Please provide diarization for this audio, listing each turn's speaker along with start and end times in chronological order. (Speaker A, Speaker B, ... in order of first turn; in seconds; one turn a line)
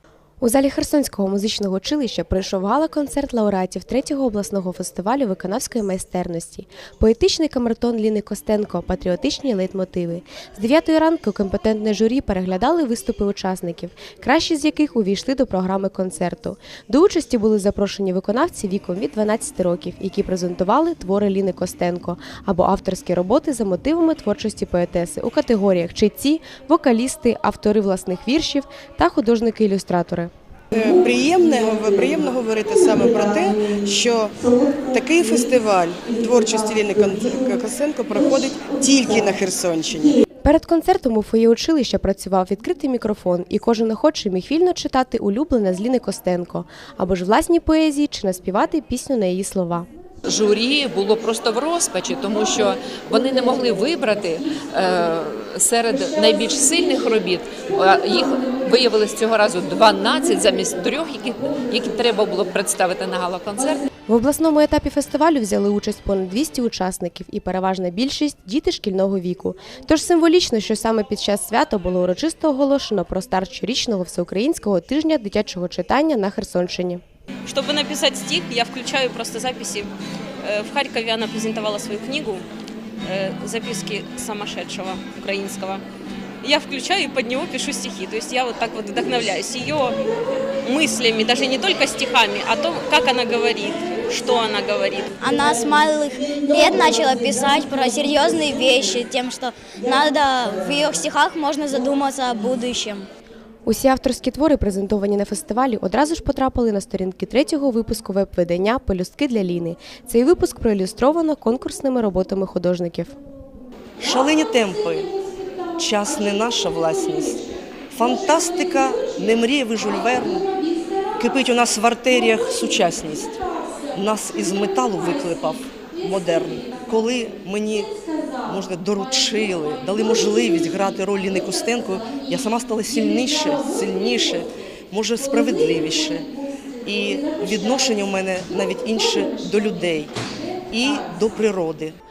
Speaker A: 0.4-30.3
Speaker B: 30.7-40.2
Speaker A: 40.4-49.9
Speaker C: 50.2-63.8
Speaker A: 64.1-77.0
Speaker D: 77.5-79.9
Speaker D: 80.4-82.5
Speaker D: 83.0-85.8
Speaker D: 86.4-90.0
Speaker D: 90.6-95.1
Speaker E: 95.2-103.0
Speaker A: 103.7-113.2
Speaker F: 114.0-115.1
Speaker F: 115.7-120.5
Speaker F: 121.2-123.4
Speaker F: 123.9-127.9
Speaker F: 128.4-136.3
Speaker F: 136.8-140.1
Speaker F: 140.7-142.0